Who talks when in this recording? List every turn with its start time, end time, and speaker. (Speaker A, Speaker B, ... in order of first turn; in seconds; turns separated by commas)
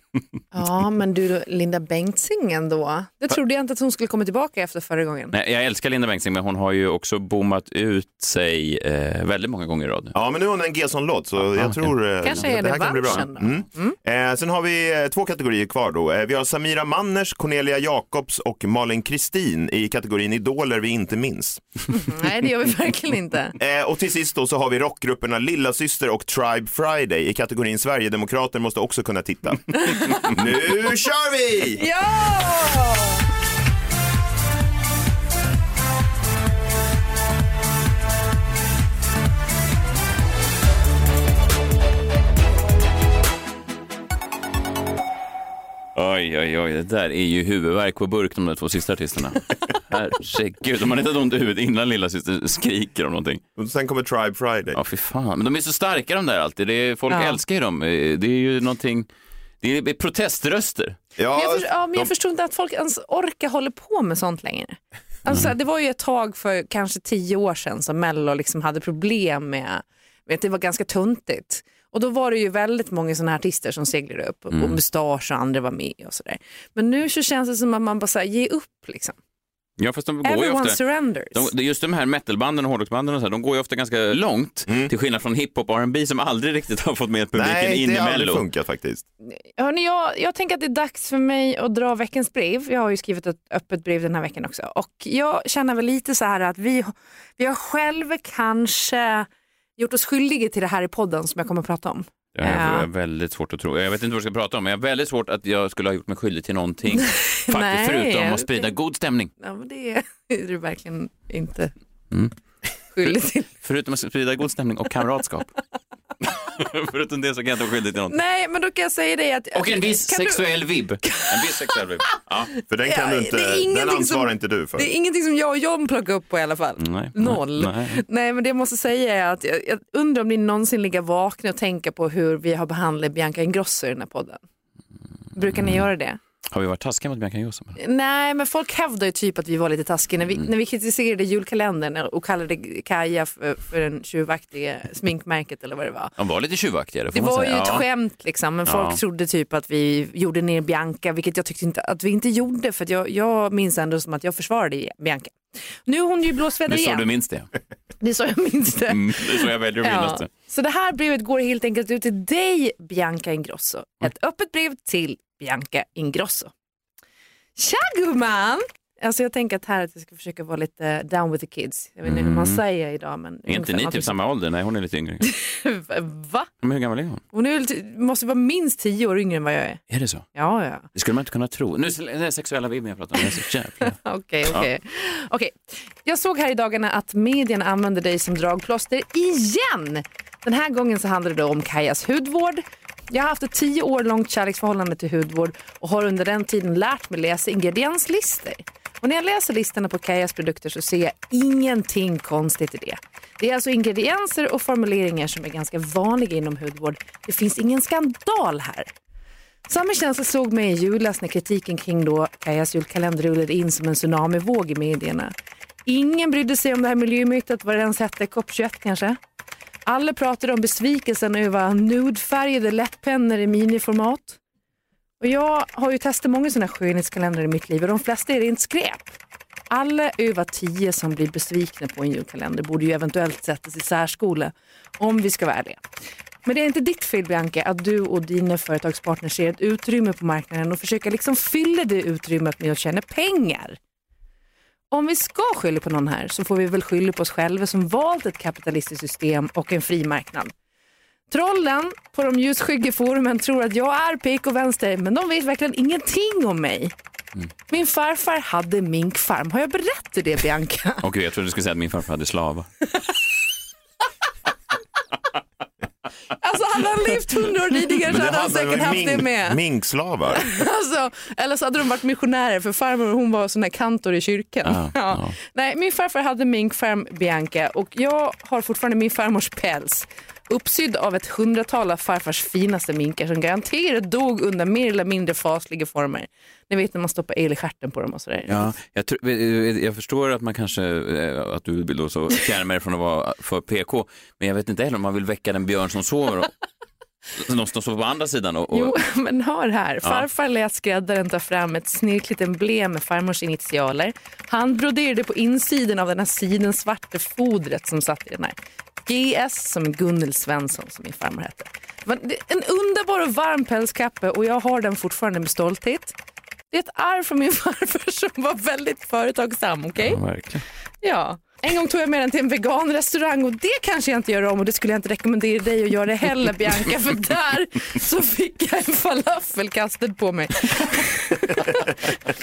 Speaker A: 0.5-5.3, Speaker B: 5.3-10.1, Speaker C: 10.1-21.9, Speaker B: 11.6-12.5, Speaker A: 12.2-13.9, Speaker A: 21.9-23.6, Speaker C: 23.6-31.8, Speaker A: 31.8-33.2, Speaker B: 46.0-53.4, Speaker C: 53.6-54.8, Speaker B: 54.7-59.1, Speaker A: 57.1-57.4, Speaker B: 59.6-61.0, Speaker C: 61.2-62.1, Speaker A: 61.3-79.2, Speaker B: 74.5-74.8, Speaker B: 79.8-80.8, Speaker A: 80.2-81.5, Speaker B: 81.3-88.4, Speaker C: 87.3-89.0, Speaker A: 89.3-102.9, Speaker B: 102.3-109.3, Speaker A: 107.0-108.7, Speaker A: 109.4-111.7, Speaker A: 112.9-113.5, Speaker B: 113.6-115.5, Speaker B: 116.2-118.2, Speaker A: 118.1-120.5, Speaker B: 119.5-122.5, Speaker A: 121.0-121.8, Speaker C: 122.7-124.9, Speaker A: 122.8-134.4, Speaker B: 126.8-128.0, Speaker A: 135.3-136.2, Speaker B: 135.5-135.8, Speaker B: 136.5-137.8, Speaker A: 137.8-146.1, Speaker B: 146.2-147.8, Speaker A: 147.1-157.1, Speaker B: 148.7-149.0, Speaker B: 156.7-157.5, Speaker A: 158.0-166.5, Speaker B: 158.9-160.3, Speaker A: 167.6-174.2, Speaker B: 172.1-172.6, Speaker B: 173.5-175.3, Speaker A: 175.2-176.5, Speaker B: 176.6-177.2, Speaker A: 177.3-179.8, Speaker B: 179.9-180.3, Speaker A: 180.3-180.9, Speaker B: 180.9-184.7, Speaker A: 183.9-208.9, Speaker A: 209.7-215.3, Speaker A: 215.9-219.2, Speaker A: 219.9-224.4, Speaker A: 225.2-229.2, Speaker A: 229.7-235.8, Speaker A: 236.4-243.8, Speaker A: 244.9-250.5, Speaker A: 251.3-256.9, Speaker A: 257.7-261.0, Speaker B: 261.0-262.7, Speaker A: 266.4-269.6, Speaker C: 268.1-270.4, Speaker A: 270.3-288.5, Speaker B: 274.6-275.4, Speaker B: 288.5-296.5, Speaker B: 297.4-299.0, Speaker A: 298.7-316.1, Speaker A: 316.7-320.2, Speaker B: 320.0-320.6, Speaker A: 321.0-331.6